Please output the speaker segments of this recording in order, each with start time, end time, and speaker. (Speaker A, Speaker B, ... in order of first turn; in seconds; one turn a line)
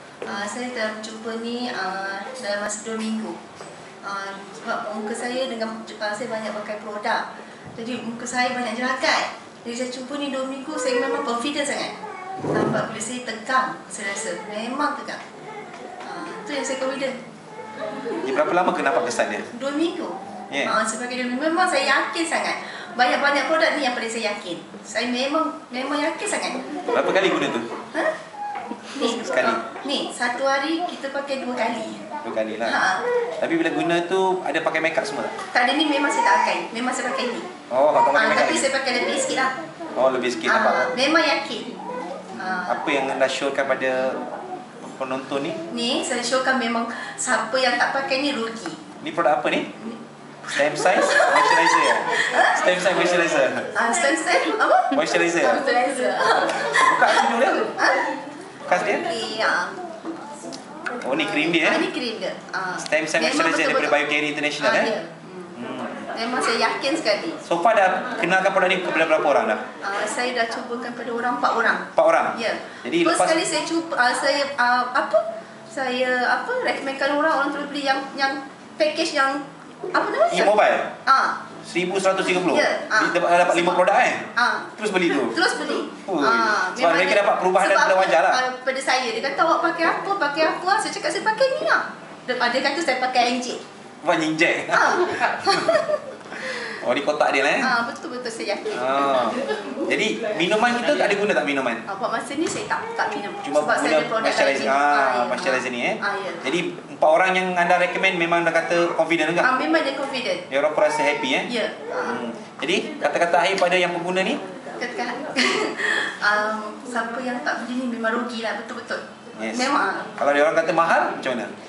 Speaker A: 0.2-3.4
Speaker A: 4.0-11.9
Speaker A: 12.5-15.2
Speaker A: 16.0-17.2
Speaker B: 18.2-19.5
Speaker A: 19.5-26.7
Speaker B: 20.5-20.8
Speaker B: 26.9-27.7
Speaker A: 28.9-32.0
Speaker B: 29.0-29.6
Speaker B: 32.2-32.8
Speaker A: 32.6-33.0
Speaker B: 33.4-35.4
Speaker A: 35.5-37.5
Speaker B: 37.7-38.7
Speaker A: 38.1-39.5
Speaker B: 40.0-40.9
Speaker A: 40.5-41.7
Speaker A: 42.4-42.8
Speaker B: 42.5-44.2
Speaker B: 44.8-45.6
Speaker A: 45.7-48.8
Speaker B: 49.0-49.7
Speaker B: 50.5-53.7
Speaker A: 51.0-52.6
Speaker A: 53.7-58.1
Speaker B: 54.9-55.6
Speaker B: 56.5-57.7
Speaker B: 58.7-59.1
Speaker A: 58.9-59.8
Speaker B: 61.0-61.9
Speaker A: 61.2-64.0
Speaker B: 62.8-64.9
Speaker A: 64.6-65.6
Speaker B: 65.5-66.0
Speaker A: 66.1-67.4
Speaker B: 67.5-69.6
Speaker A: 69.8-80.5
Speaker B: 72.0-73.4
Speaker B: 80.3-80.9
Speaker A: 81.0-81.4
Speaker B: 81.6-85.4
Speaker A: 82.3-83.8
Speaker A: 84.3-93.6
Speaker B: 86.0-88.4
Speaker B: 94.0-95.8
Speaker A: 94.7-96.8
Speaker B: 96.5-97.7
Speaker A: 97.6-99.4
Speaker B: 98.7-101.8
Speaker A: 101.9-106.5
Speaker B: 103.4-109.5
Speaker A: 109.4-110.5
Speaker B: 110.5-111.5
Speaker A: 111.5-112.2
Speaker B: 112.0-114.4
Speaker A: 114.8-120.1
Speaker B: 119.4-121.5